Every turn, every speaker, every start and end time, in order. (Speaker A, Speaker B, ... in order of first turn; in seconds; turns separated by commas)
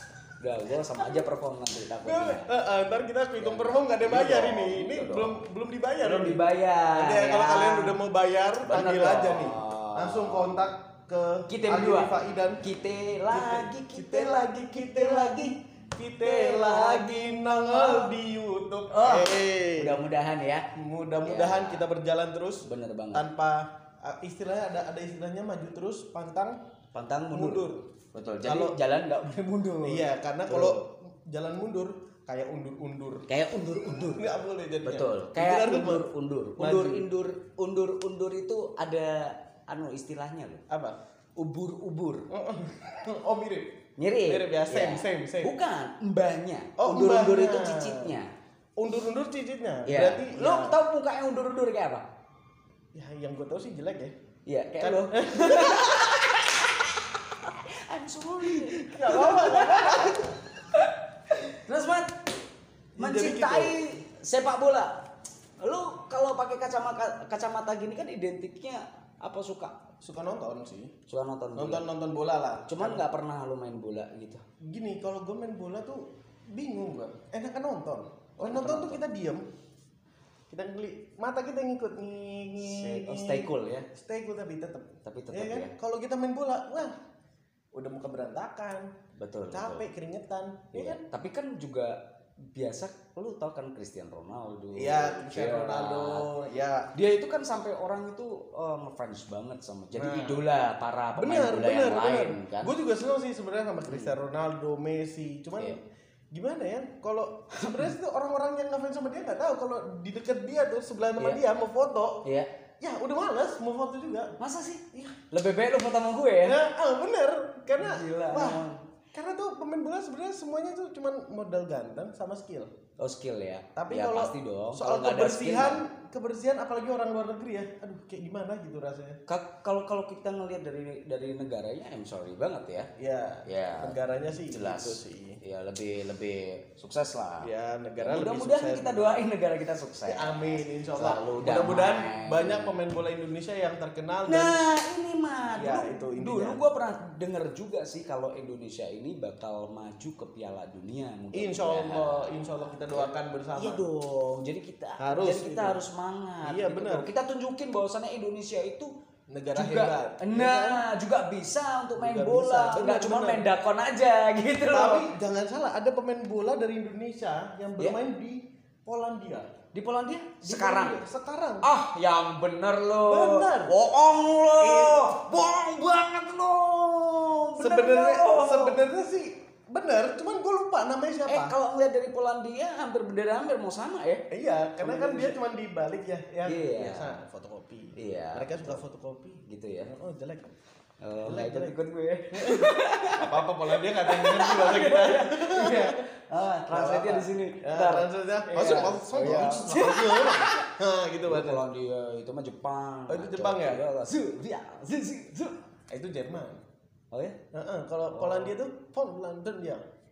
Speaker A: 0.4-2.5, Speaker B: 2.0-6.4, Speaker A: 3.4-5.3, Speaker A: 6.0-8.0, Speaker B: 6.9-12.6, Speaker A: 8.7-10.6, Speaker A: 11.5-15.6, Speaker B: 13.3-20.0, Speaker A: 16.2-18.1, Speaker A: 18.9-20.7, Speaker B: 20.8-26.6, Speaker A: 21.2-21.8, Speaker A: 22.6-23.2, Speaker A: 26.9-30.8, Speaker B: 27.3-27.8, Speaker B: 28.4-28.8, Speaker B: 29.8-33.2, Speaker A: 33.3-34.3, Speaker B: 34.1-37.1, Speaker A: 34.8-40.6, Speaker B: 40.7-41.0, Speaker A: 41.4-42.3, Speaker B: 42.3-43.7, Speaker A: 44.0-48.3, Speaker B: 44.3-45.5, Speaker B: 46.8-48.2, Speaker B: 48.8-50.8, Speaker A: 49.9-52.0, Speaker B: 52.9-54.1, Speaker A: 54.5-62.1, Speaker B: 54.8-56.2, Speaker B: 58.4-60.3, Speaker B: 63.0-63.8, Speaker A: 63.0-64.9, Speaker A: 65.6-69.8, Speaker B: 70.0-70.9, Speaker A: 71.1-71.8, Speaker B: 71.5-73.0, Speaker A: 72.7-74.4, Speaker B: 74.6-79.4, Speaker A: 78.4-79.0, Speaker B: 80.5-86.9, Speaker A: 82.6-83.9, Speaker A: 85.0-85.7, Speaker B: 87.7-88.9, Speaker A: 89.2-89.8, Speaker B: 89.5-91.0, Speaker A: 90.7-92.0, Speaker A: 92.5-96.3, Speaker B: 94.7-96.9, Speaker A: 96.9-102.7, Speaker B: 99.9-100.4, Speaker B: 101.2-105.8, Speaker A: 103.9-104.2, Speaker B: 106.3-112.2, Speaker A: 107.6-107.9, Speaker A: 112.2-112.5, Speaker B: 112.8-114.3, Speaker A: 114.4-116.6, Speaker B: 116.4-122.7, Speaker A: 117.8-118.8, Speaker A: 123.0-125.8, Speaker B: 123.8-129.2, Speaker A: 129.3-132.9, Speaker B: 133.0-135.4, Speaker A: 133.4-134.0, Speaker A: 134.5-137.5, Speaker B: 137.4-139.2, Speaker A: 138.0-142.7, Speaker B: 140.0-144.6, Speaker A: 144.3-152.2, Speaker B: 145.5-146.6, Speaker B: 151.3-153.8, Speaker A: 152.9-158.9, Speaker B: 155.0-155.8, Speaker B: 156.4-157.1, Speaker B: 159.3-160.8, Speaker A: 159.5-165.1, Speaker B: 162.0-163.4, Speaker B: 164.7-169.5, Speaker A: 169.7-171.0, Speaker B: 170.4-171.7, Speaker A: 171.6-178.8, Speaker B: 173.1-173.7, Speaker B: 174.6-175.2, Speaker B: 177.6-181.5, Speaker A: 181.3-184.2, Speaker B: 184.3-190.5, Speaker A: 184.8-185.4, Speaker A: 186.4-187.2, Speaker A: 188.0-188.8, Speaker A: 189.5-189.9, Speaker A: 191.0-200.7, Speaker B: 191.2-191.8, Speaker B: 192.3-196.0, Speaker B: 196.7-201.6, Speaker A: 201.2-205.5, Speaker B: 203.1-203.8, Speaker B: 205.9-206.6, Speaker A: 207.1-207.4, Speaker B: 207.5-209.8, Speaker A: 208.1-208.5